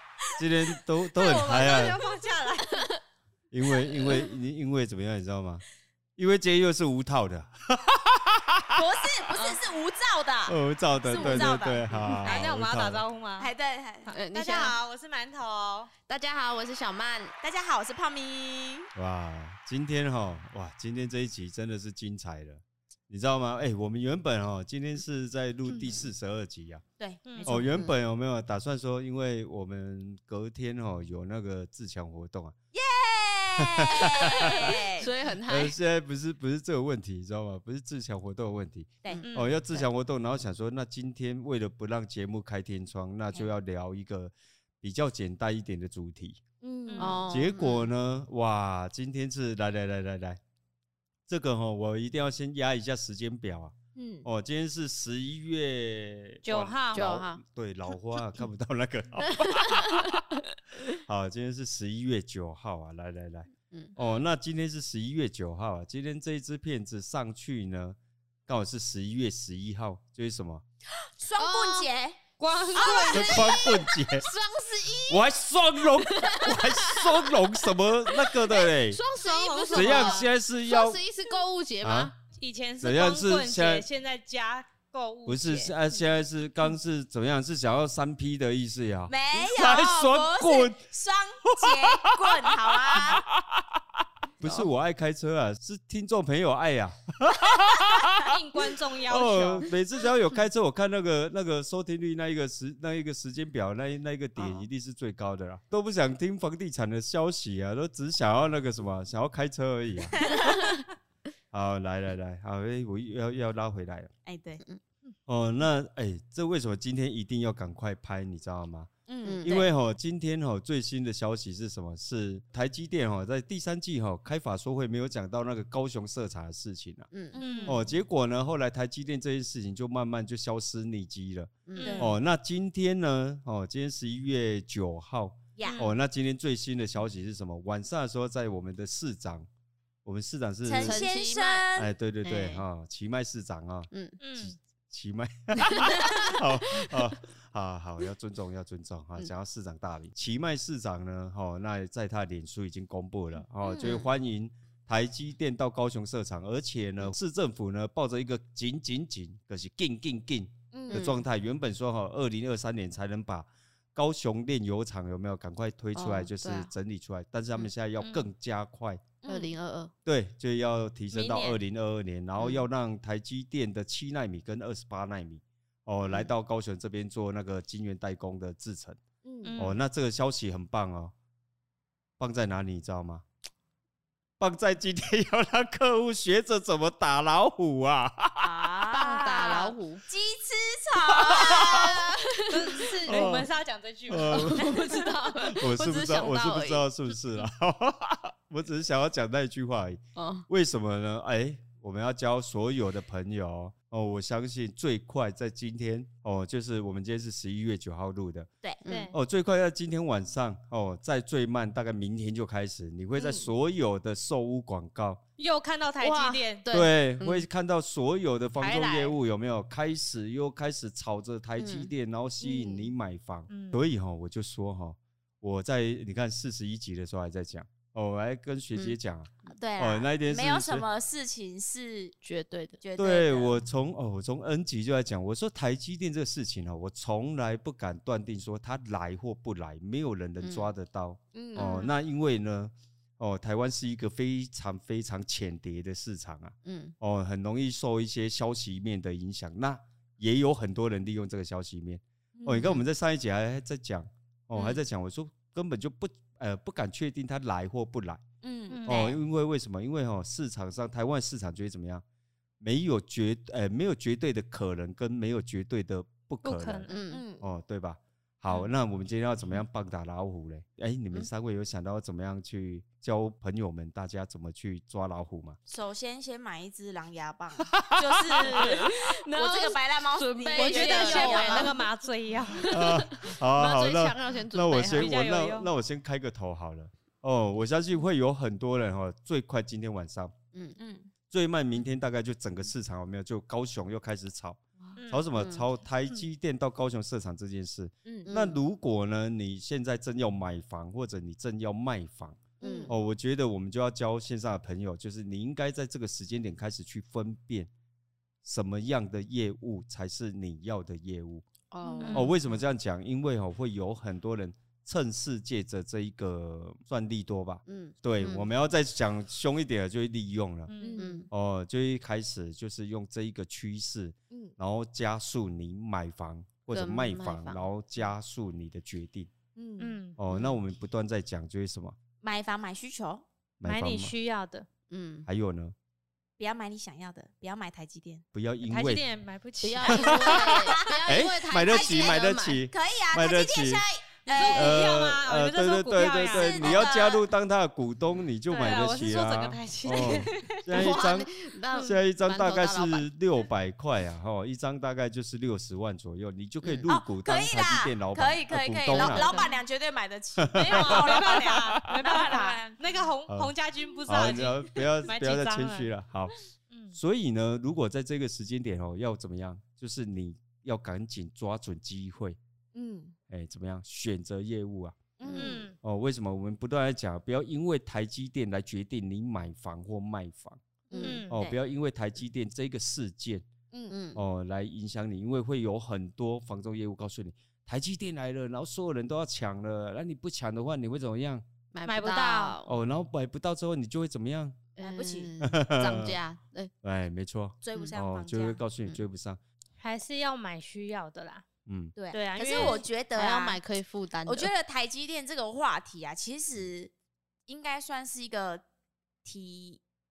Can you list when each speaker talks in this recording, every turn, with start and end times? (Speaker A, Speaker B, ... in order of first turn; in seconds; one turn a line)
Speaker A: 0.4-2.0
Speaker B: 1.2-2.9
Speaker C: 1.4-1.9
Speaker D: 2.7-3.0
Speaker A: 3.5-5.6
Speaker D: 4.0-4.3
Speaker A: 6.2-8.8
Speaker C: 8.8-12.5
Speaker D: 9.3-9.6
Speaker A: 10.5-13.0
Speaker D: 11.2-11.5
Speaker B: 12.2-13.5
Speaker C: 13.4-14.1
Speaker D: 14.1-14.8
Speaker B: 14.3-15.9
Speaker D: 16.1-17.4
Speaker C: 17.4-18.9
Speaker A: 18.9-26.8
Speaker C: 27.0-27.5
Speaker B: 27.3-27.6
Speaker D: 27.5-27.9
Speaker A: 27.5-32.5
Speaker C: 32.7-35.1
Speaker A: 33.6-34.8
Speaker D: 34.4-35.8
Speaker A: 35.5-46.4
Speaker D: 39.1-39.9
Speaker B: 39.2-39.6
Speaker C: 46.6-47.2
Speaker B: 46.9-47.2
Speaker D: 47.0-47.9
Speaker A: 47.3-50.4
Speaker A: 51.3-53.7
Speaker C: 54.0-54.3
Speaker A: 54.2-60.2
Speaker B: 56.4-57.1
Speaker D: 56.9-57.4
Speaker D: 58.1-58.5
Speaker D: 59.2-61.0
Speaker A: 60.9-70.6
Speaker C: 71.2-72.2
Speaker D: 71.3-71.9
Speaker B: 72.4-73.6
Speaker C: 72.7-73.8
Speaker D: 72.8-82.1
Speaker A: 73.1-74.3
Speaker A: 75.1-79.0
Speaker B: 79.2-80.3
Speaker A: 79.7-81.0
Speaker A: 81.8-82.1
Speaker B: 82.3-85.7
Speaker A: 82.8-83.9
Speaker A: 85.3-90.8
Speaker C: 89.1-93.2
Speaker A: 91.5-93.7
Speaker A: 94.4-98.3
Speaker D: 94.4-94.7
Speaker B: 98.1-99.7
Speaker A: 99.1-110.7
Speaker C: 110.2-110.6
Speaker A: 111.5-114.1
Speaker C: 114.2-114.6
Speaker A: 115.3-118.9
Speaker C: 119.1-119.7
Speaker D: 119.2-119.6
Speaker A: 119.4-127.1
Speaker D: 127.1-127.4
Speaker C: 127.3-127.8
Speaker B: 127.4-127.8
Speaker A: 127.7-139.5
Speaker D: 131.7-132.0
Speaker B: 131.8-132.2
Speaker C: 131.8-132.2
Speaker C: 135.6-135.8
Speaker B: 135.6-136.0
Speaker A: 140.1-141.0
Speaker C: 140.6-141.9
Speaker D: 140.7-141.7
Speaker A: 141.8-169.0
Speaker D: 142.2-142.7
Speaker D: 143.9-144.2
Speaker B: 144.2-144.6
Speaker D: 145.6-146.9
Speaker C: 153.6-154.1
Speaker C: 160.7-161.1
Speaker D: 160.9-161.2
Speaker D: 165.9-166.7
Speaker B: 168.0-168.3
Speaker C: 169.2-169.5
Speaker D: 169.3-169.9
Speaker A: 170.1-179.0
Speaker B: 171.1-171.6
Speaker D: 172.4-172.7
Speaker D: 176.0-176.3
Speaker C: 179.2-179.6
Speaker B: 179.4-179.8
Speaker A: 179.6-181.1
Speaker A: 182.2-183.2
Speaker A: 184.4-188.6
Speaker C: 188.4-192.0
Speaker D: 188.9-190.0
Speaker A: 191.1-191.9
Speaker D: 191.4-193.1
Speaker B: 192.5-195.1
Speaker A: 193.1-193.5
Speaker A: 194.1-194.7
Speaker D: 194.2-196.9
Speaker A: 195.4-208.5
Speaker D: 200.2-200.5
Speaker D: 208.8-209.1
Speaker B: 208.9-209.2
Speaker A: 209.1-215.2
Speaker C: 213.2-213.5
Speaker B: 215.4-216.7
Speaker C: 216.0-216.4
Speaker D: 216.1-217.5
Speaker A: 216.7-230.9
Speaker B: 218.6-219.2
Speaker D: 221.6-221.9
Speaker C: 222.4-222.9
Speaker B: 223.5-223.8
Speaker C: 229.5-232.1
Speaker D: 232.2-232.8
Speaker C: 232.8-233.6
Speaker A: 233.0-258.2
Speaker D: 240.4-240.7
Speaker C: 241.3-241.9
Speaker D: 241.6-241.9
Speaker D: 246.7-246.9
Speaker C: 252.3-252.8
Speaker C: 254.6-254.8
Speaker C: 258.4-259.2
Speaker B: 258.7-259.2
Speaker A: 258.9-262.0
Speaker A: 262.6-266.9
Speaker B: 266.4-267.0
Speaker D: 266.9-267.2
Speaker C: 267.1-267.4
Speaker A: 267.4-275.6
Speaker C: 275.7-281.9
Speaker A: 277.7-278.6
Speaker D: 278.4-281.9
Speaker B: 280.5-282.7
Speaker D: 282.5-285.2
Speaker A: 282.7-290.3
Speaker B: 284.8-285.7
Speaker C: 290.8-291.1
Speaker A: 291.3-307.7
Speaker B: 295.0-295.3
Speaker D: 295.4-295.6
Speaker C: 298.1-298.3
Speaker D: 298.3-298.6
Speaker C: 302.6-302.9
Speaker D: 302.6-302.9
Speaker A: 308.4-311.5
Speaker D: 311.7-312.4
Speaker C: 311.8-312.3
Speaker B: 312.0-312.3
Speaker A: 312.1-320.7
Speaker D: 317.6-318.5
Speaker B: 320.7-321.0
Speaker C: 320.8-321.3
Speaker D: 321.0-321.3
Speaker A: 321.3-329.3
Speaker C: 324.3-324.6
Speaker D: 326.7-327.6
Speaker C: 329.6-330.0
Speaker B: 329.8-330.2
Speaker A: 330.2-332.0
Speaker D: 330.3-330.6
Speaker C: 332.2-333.3
Speaker A: 333.6-334.1
Speaker B: 333.6-334.7
Speaker D: 334.9-335.3
Speaker A: 335.3-335.8
Speaker C: 336.4-338.2
Speaker A: 338.3-339.0
Speaker B: 338.6-340.7
Speaker D: 339.6-342.6
Speaker A: 339.9-340.3
Speaker C: 340.2-341.0
Speaker A: 341.1-343.8
Speaker C: 341.6-345.1
Speaker B: 344.3-347.0
Speaker A: 344.4-359.3
Speaker C: 346.2-347.3
Speaker B: 348.5-350.3
Speaker C: 349.9-350.7
Speaker D: 350.7-353.1
Speaker B: 351.7-352.0
Speaker C: 356.9-362.8
Speaker B: 358.9-359.6
Speaker A: 360.4-362.1
Speaker B: 360.6-365.9
Speaker A: 364.1-366.3
Speaker B: 366.7-366.9
Speaker A: 366.9-372.4
Speaker C: 372.7-373.1
Speaker A: 373.3-375.0
Speaker C: 375.2-375.7
Speaker D: 375.2-375.6
Speaker B: 375.4-375.8
Speaker A: 375.8-380.6
Speaker D: 380.9-381.2
Speaker C: 380.9-381.6
Speaker B: 381.0-381.3
Speaker A: 381.3-383.5
Speaker D: 383.9-384.2
Speaker A: 384.1-391.4
Speaker D: 391.7-392.8
Speaker B: 391.8-392.6
Speaker A: 392.7-394.6
Speaker D: 394.8-396.7
Speaker C: 394.8-395.3
Speaker A: 395.4-396.2
Speaker A: 396.8-399.4
Speaker C: 397.6-398.6
Speaker B: 399.8-401.5
Speaker A: 401.7-401.9
Speaker C: 401.9-403.6
Speaker B: 402.1-402.9
Speaker D: 402.5-404.5
Speaker C: 404.3-406.9
Speaker C: 407.5-408.6
Speaker C: 409.2-409.8